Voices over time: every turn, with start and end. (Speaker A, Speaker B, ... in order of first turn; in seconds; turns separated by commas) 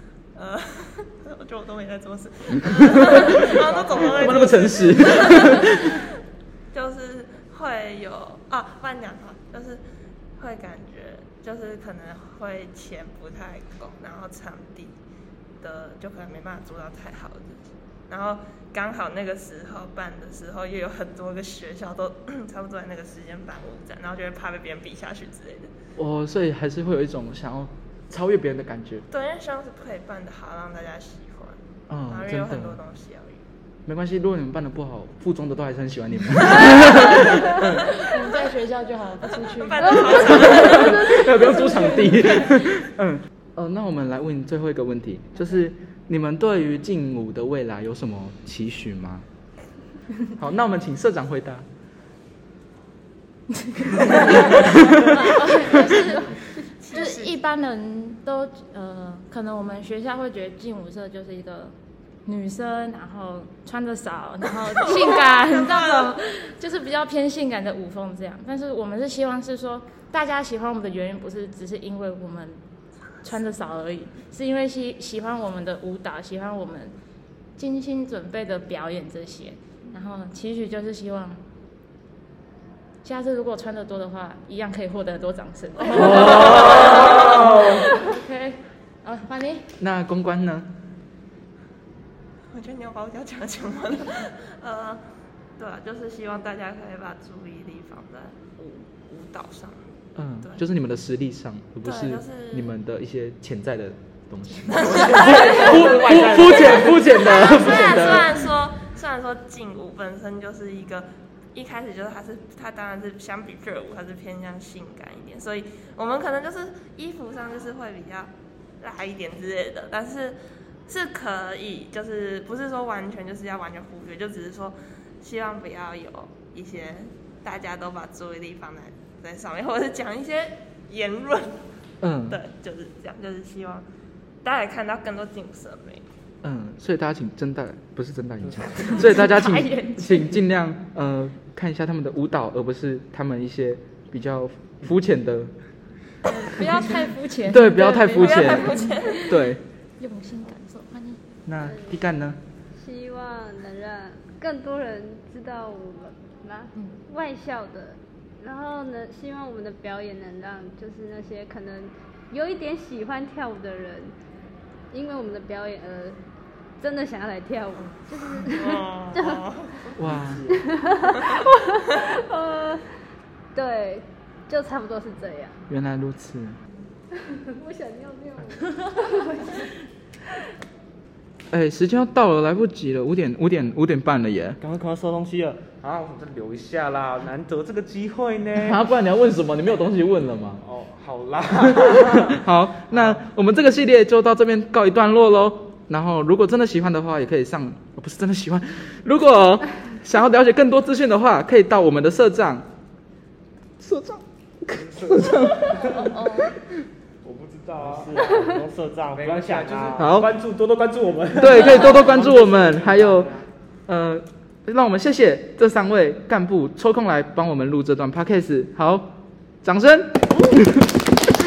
Speaker A: 0.3-6.0, Speaker B: 2.5-6.0, Speaker C: 3.5-4.7, Speaker A: 6.7-9.8, Speaker A: 10.4-15.0, Speaker A: 15.6-25.7, Speaker B: 26.0-29.1, Speaker A: 29.1-33.4, Speaker B: 31.9-32.8, Speaker B: 33.9-37.9, Speaker A: 36.9-37.2, Speaker D: 37.8-42.7, Speaker A: 39.4-41.3, Speaker B: 40.1-49.3, Speaker E: 40.7-41.3, Speaker B: 50.4-51.7, Speaker D: 53.6-72.6, Speaker B: 54.6-55.0, Speaker A: 56.8-57.3, Speaker A: 65.1-66.1, Speaker D: 73.2-77.0, Speaker D: 77.6-81.4, Speaker D: 83.0-89.7, Speaker B: 85.9-87.9, Speaker A: 86.5-87.0, Speaker B: 89.8-90.7, Speaker A: 92.5-95.0, Speaker A: 95.6-100.6, Speaker B: 100.2-108.5, Speaker A: 101.8-102.7, Speaker A: 104.7-131.7, Speaker C: 104.7-107.0, Speaker B: 132.0-132.4, Speaker A: 132.3-133.8, Speaker A: 134.4-136.0, Speaker B: 136.4-145.5, Speaker D: 138.9-140.4, Speaker D: 146.2-151.2, Speaker B: 147.5-149.6, Speaker A: 148.1-149.4, Speaker B: 151.5-152.4, Speaker E: 151.6-152.0, Speaker E: 152.8-164.1, Speaker E: 164.9-166.2, Speaker E: 166.8-169.5, Speaker A: 168.5-169.9, Speaker B: 170.0-170.4, Speaker E: 170.5-172.9, Speaker A: 171.1-171.4, Speaker E: 173.6-175.6, Speaker B: 175.7-176.6, Speaker E: 177.2-179.7, Speaker B: 181.5-184.6, Speaker F: 184.6-185.7, Speaker C: 185.7-188.8, Speaker B: 188.6-190.6, Speaker C: 190.6-192.4, Speaker B: 191.9-202.7, Speaker C: 192.9-193.2, Speaker B: 203.8-206.1, Speaker C: 204.8-206.1, Speaker D: 205.7-206.5, Speaker C: 207.2-208.3, Speaker F: 207.8-210.3, Speaker E: 208.2-208.6, Speaker C: 209.2-213.4, Speaker B: 209.9-210.4, Speaker B: 211.4-213.3, Speaker B: 213.9-221.0